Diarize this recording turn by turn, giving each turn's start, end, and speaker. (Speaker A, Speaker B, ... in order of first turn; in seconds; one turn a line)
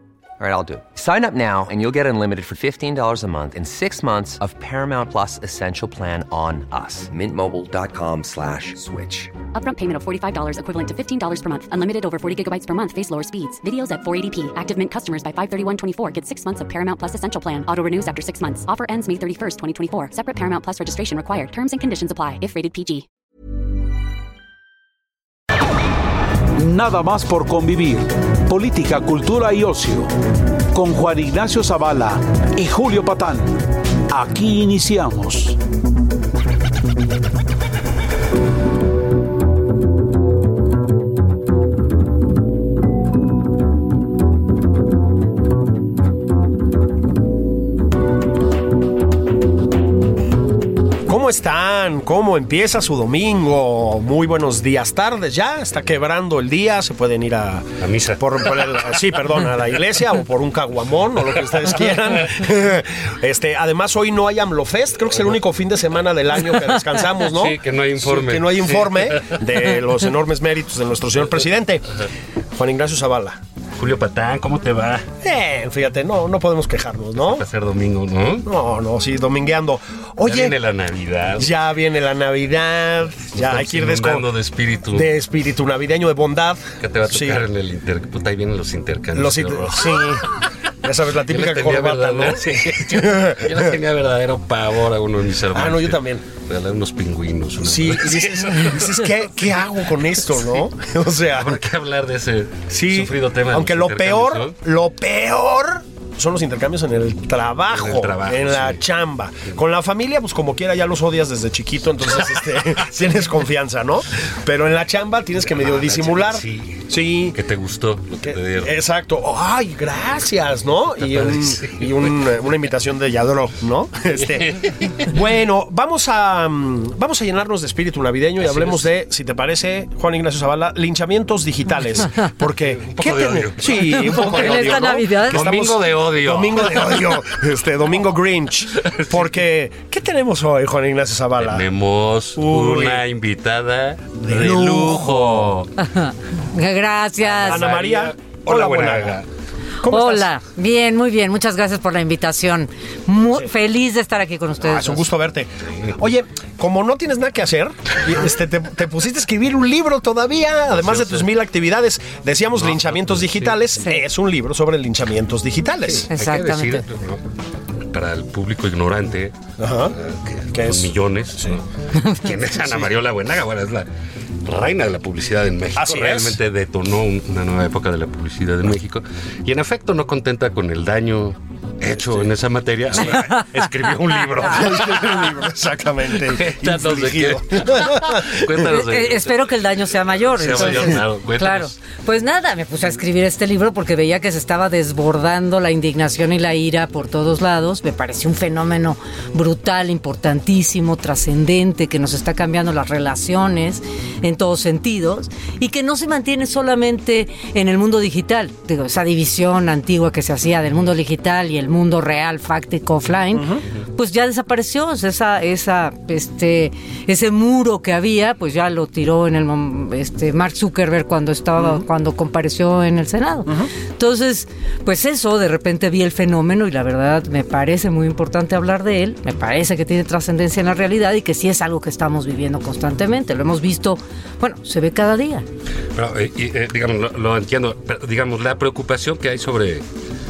Speaker A: 0.4-9.3
Speaker B: 9.5-23.1
Speaker C: 26.6-30.1
Speaker C: 30.7-35.6
Speaker D: 51.1-72.0
Speaker E: 57.8-59.0
Speaker E: 67.2-69.4
Speaker D: 72.5-73.4
Speaker E: 73.8-75.1
Speaker D: 75.2-77.4
Speaker E: 77.2-78.5
Speaker D: 78.5-80.5
Speaker E: 80.2-81.5
Speaker D: 81.4-84.3
Speaker E: 83.3-85.1
Speaker D: 84.9-87.4
Speaker E: 86.8-90.4
Speaker D: 89.1-90.3
Speaker D: 90.8-93.7
Speaker E: 91.2-99.3
Speaker D: 95.5-96.2
Speaker D: 97.6-101.6
Speaker E: 101.3-104.5
Speaker D: 102.7-117.4
Speaker E: 107.7-108.8
Speaker E: 115.4-118.7
Speaker D: 118.2-141.6
Speaker E: 121.0-122.2
Speaker E: 124.3-124.7
Speaker E: 128.4-128.9
Speaker E: 132.4-137.4
Speaker F: 133.8-135.6
Speaker E: 138.8-139.3
Speaker E: 141.4-145.7
Speaker D: 142.3-143.0
Speaker D: 144.2-145.5
Speaker F: 145.8-147.7
Speaker E: 147.2-149.3
Speaker D: 147.4-149.2
Speaker D: 149.8-150.3
Speaker F: 149.8-155.1
Speaker D: 154.6-166.1
Speaker E: 160.7-161.3
Speaker E: 162.6-163.8
Speaker E: 165.8-167.2
Speaker F: 166.1-166.8
Speaker E: 167.9-173.9
Speaker D: 169.6-169.9
Speaker D: 170.5-171.6
Speaker E: 174.4-185.4
Speaker D: 175.8-176.4
Speaker D: 184.4-188.6
Speaker E: 186.1-191.8
Speaker F: 188.6-235.4
Speaker D: 190.5-190.9
Speaker D: 213.3-213.6
Speaker D: 221.6-221.8
Speaker E: 235.9-239.8